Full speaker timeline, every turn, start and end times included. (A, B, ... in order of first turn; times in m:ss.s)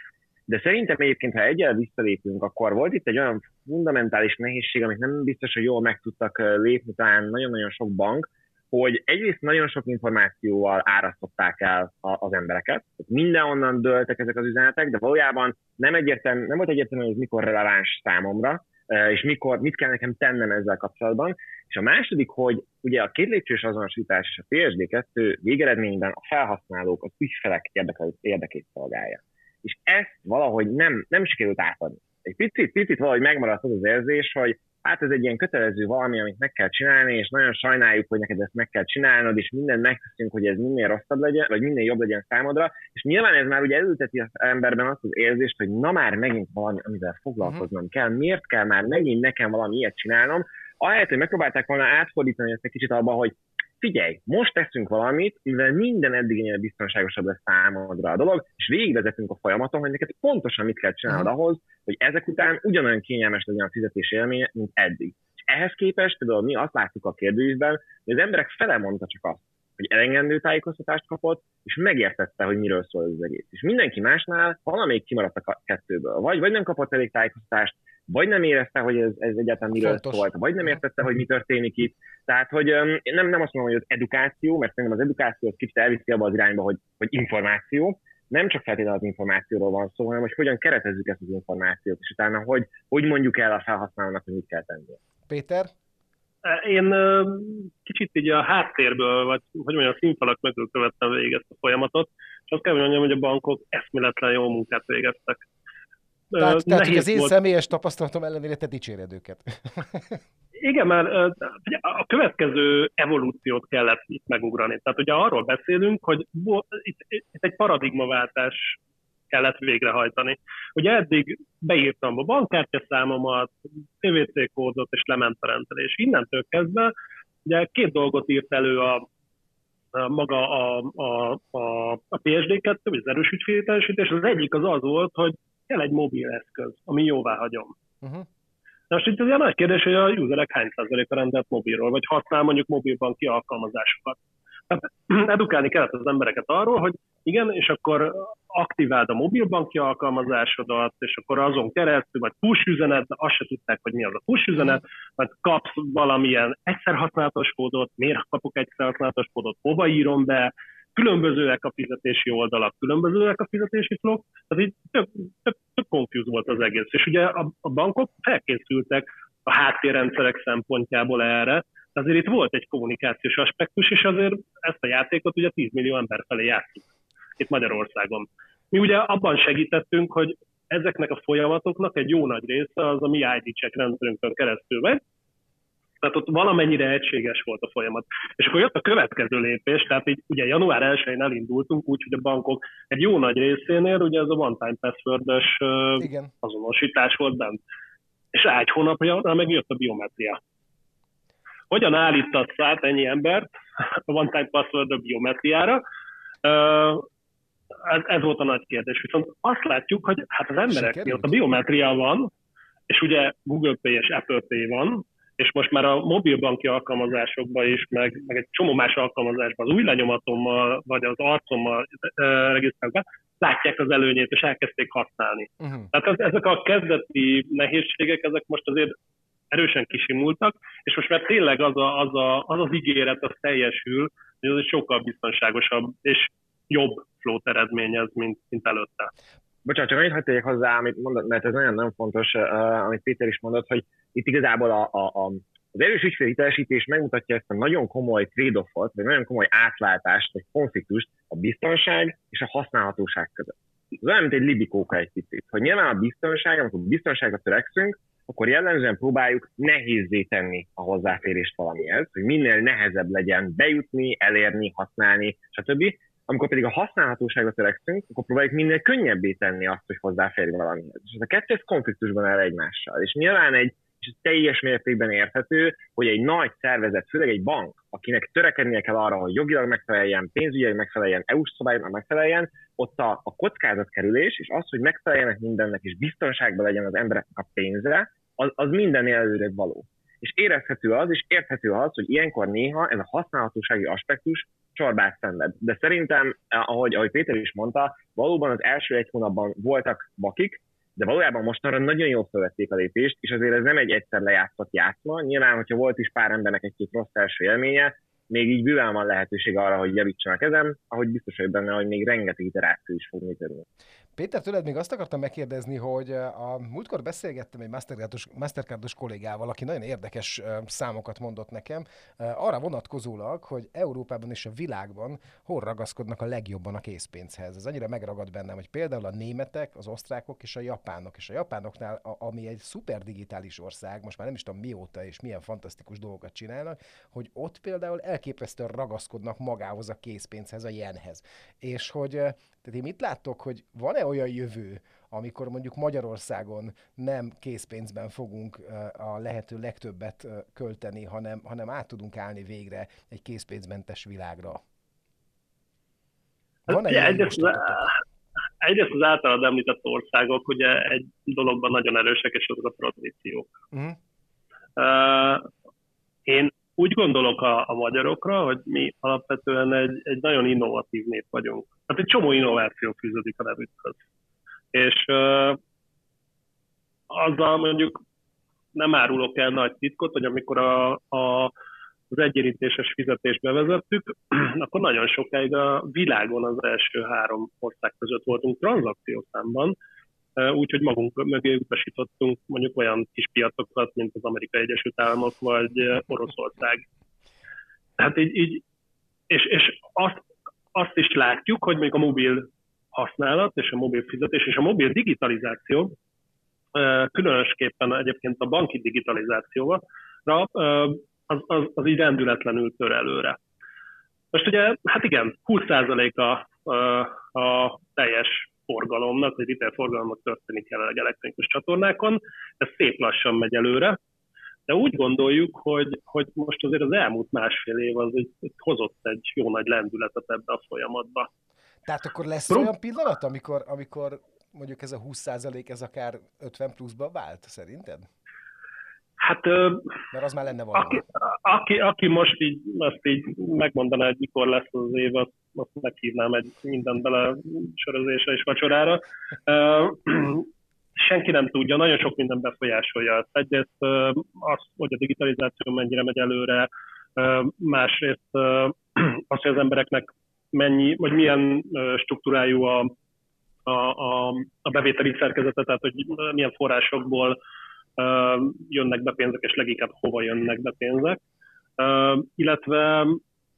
0:00.5-1:35.0 A
1:19.8-1:20.3 B
1:35.3-1:35.7 B
1:36.4-1:45.4 C
1:46.3-1:47.3 C
1:46.4-1:50.2 B
1:50.6-1:58.8 C
1:59.3-2:06.9 C
2:07.4-2:09.0 C
2:09.9-2:17.7 C
2:18.9-2:24.2 C
2:24.7-3:05.0 C
3:06.0-3:17.6 C
3:16.0-3:16.3 B
3:18.3-3:20.4 C
3:21.7-3:25.8 C
3:26.4-3:27.0 C
3:27.8-3:32.3 C
3:30.7-3:31.3 B
3:32.9-3:48.9 C
3:45.6-3:45.9 B
3:49.5-3:59.1 C
3:59.6-5:13.6 A
5:14.2-5:54.6 B
5:56.7-5:57.9 B
5:56.7-5:58.0 C
5:58.6-6:03.5 C
6:03.7-6:04.0 B
6:04.8-6:05.5 C
6:06.2-6:14.0 C
6:14.7-6:15.6 C
6:17.1-6:18.0 C
6:18.7-6:21.5 C
6:22.1-6:29.8 C
6:30.4-6:36.8 C
6:38.0-6:38.6 C
6:39.3-6:40.2 C
6:40.7-6:45.9 C
6:46.7-6:53.4 C
6:54.3-7:04.0 C
7:04.7-7:11.3 C
7:11.8-7:18.1 B
7:19.2-7:19.9 C
7:20.1-7:21.0 B
7:20.8-7:42.9 C
7:43.6-7:47.4 C
7:48.0-7:51.2 C
7:51.8-7:53.2 C